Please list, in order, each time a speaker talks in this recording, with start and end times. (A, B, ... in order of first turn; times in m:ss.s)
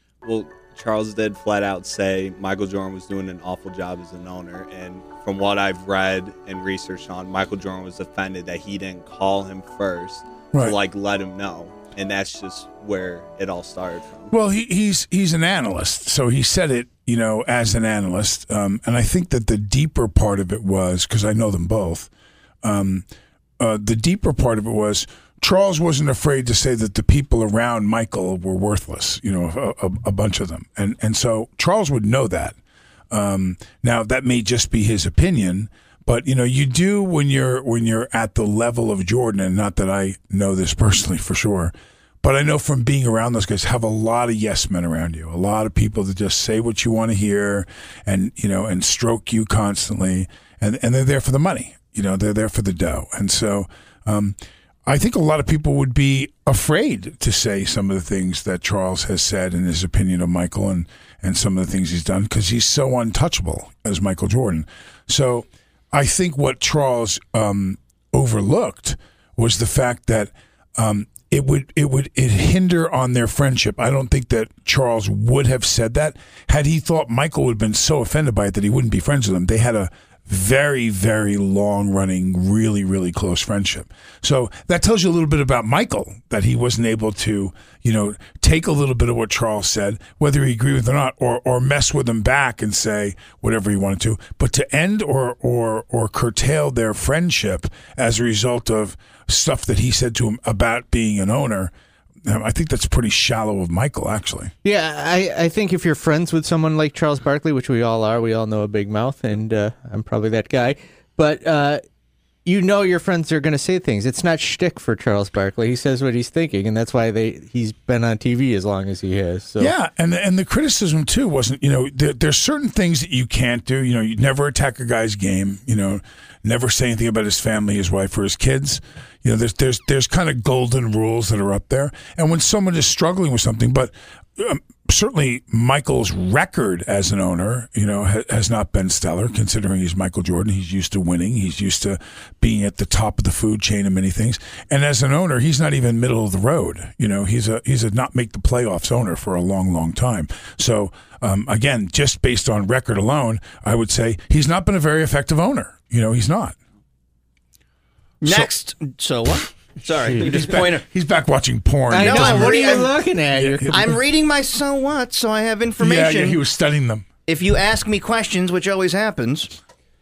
0:00.2-0:14.3 A
0:14.3-0:22.1 B
0:22.6-0:23.1 B
0:23.6-0:32.6 B
0:33.1-1:41.7 B
1:42.2-1:44.5 B
1:44.6-1:51.8 C
1:52.4-1:59.7 C
1:59.6-2:36.6 B
2:38.2-2:38.5 B
2:38.2-2:40.8 D
2:40.2-2:44.0 B
2:41.9-2:43.8 C
2:42.0-2:42.9 D
2:43.7-2:46.4 D
2:45.8-2:47.1 B
2:47.3-2:49.6 D